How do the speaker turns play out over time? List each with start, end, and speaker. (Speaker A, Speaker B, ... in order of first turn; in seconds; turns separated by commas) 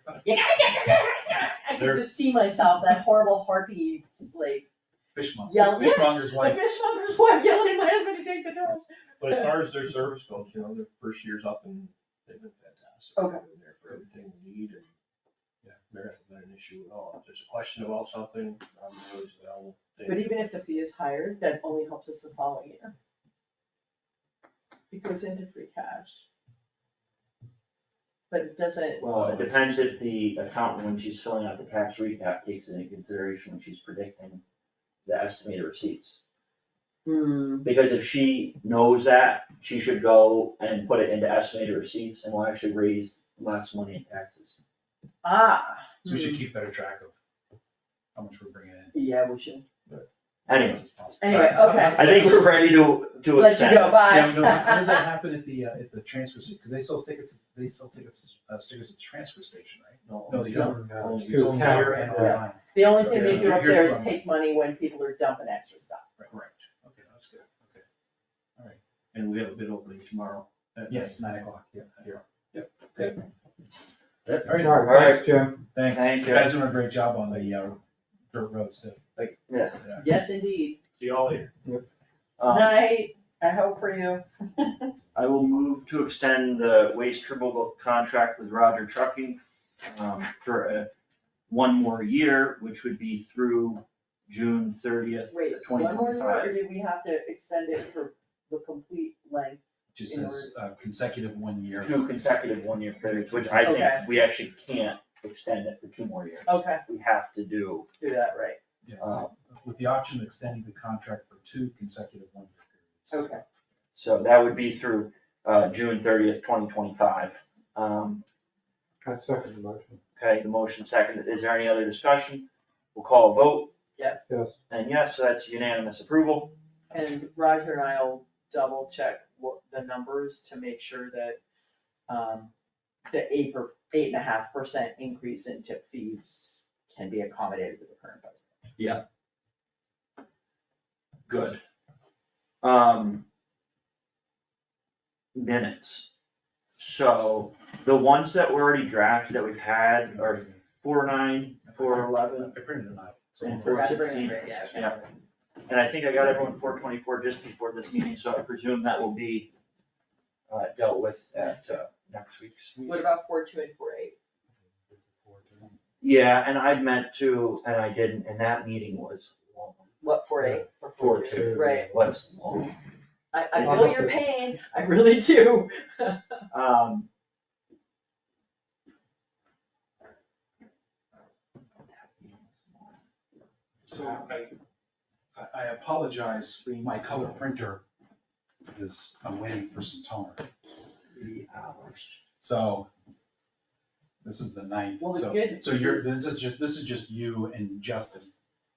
Speaker A: 0.2-4.7, Speaker B: 1.8-2.0, Speaker B: 5.2-6.6, Speaker A: 5.5-9.3, Speaker C: 9.2-14.9, Speaker A: 13.2-13.4, Speaker C: 15.9-20.5, Speaker A: 20.1-22.9, Speaker A: 24.9-26.2, Speaker A: 28.3-29.6, Speaker D: 29.0-34.4, Speaker D: 35.1-36.2, Speaker A: 37.0-37.7, Speaker D: 37.6-44.6, Speaker A: 45.2-46.4, Speaker B: 46.0-47.1, Speaker B: 48.1-48.9, Speaker A: 48.9-49.6, Speaker D: 50.5-54.0, Speaker B: 50.5-52.6, Speaker A: 51.2-52.3, Speaker A: 53.4-55.1, Speaker B: 54.0-64.2, Speaker C: 60.0-62.1, Speaker A: 60.5-60.8, Speaker E: 61.0-62.4, Speaker A: 61.5-66.1, Speaker C: 63.2-63.5, Speaker B: 66.2-67.8, Speaker C: 69.1-71.3, Speaker B: 70.9-72.2, Speaker C: 72.8-73.1, Speaker D: 74.3-76.5, Speaker B: 74.4-77.8, Speaker E: 74.5-75.5, Speaker B: 78.3-79.0, Speaker D: 79.2-79.8, Speaker A: 79.9-80.8, Speaker C: 81.0-81.5, Speaker D: 82.4-82.8, Speaker A: 82.5-84.9, Speaker D: 85.2-90.9, Speaker D: 91.5-96.6, Speaker A: 95.3-100.5, Speaker B: 99.9-102.0, Speaker D: 101.8-107.9, Speaker B: 103.1-103.7, Speaker A: 103.6-104.0, Speaker A: 106.5-106.8, Speaker A: 108.0-108.6, Speaker B: 108.8-113.4, Speaker D: 109.0-109.3, Speaker A: 113.1-113.4, Speaker D: 113.9-118.2, Speaker E: 119.0-120.0, Speaker D: 120.2-123.7, Speaker A: 124.0-124.2, Speaker E: 124.3-124.6, Speaker D: 124.7-126.5, Speaker A: 126.9-131.4, Speaker A: 132.1-132.5, Speaker A: 133.1-138.4, Speaker D: 138.8-139.0, Speaker D: 141.3-141.6, Speaker D: 142.6-143.2, Speaker D: 145.3-146.1, Speaker D: 146.8-152.6, Speaker B: 150.2-150.6, Speaker B: 151.7-154.1, Speaker A: 153.4-155.1, Speaker D: 153.4-155.0, Speaker D: 155.7-159.5, Speaker D: 160.5-163.0, Speaker A: 162.8-164.2, Speaker E: 165.2-165.6, Speaker D: 166.0-169.9, Speaker A: 170.0-171.9, Speaker D: 171.0-172.8, Speaker E: 171.2-172.0, Speaker A: 173.3-176.4, Speaker D: 173.6-174.0, Speaker E: 173.6-174.2, Speaker D: 176.5-177.1, Speaker D: 181.9-182.9, Speaker B: 183.9-184.5, Speaker D: 183.9-184.5, Speaker B: 185.3-187.8, Speaker B: 188.7-190.4, Speaker D: 191.1-192.1, Speaker B: 192.4-192.9, Speaker B: 194.2-198.3, Speaker A: 195.0-196.1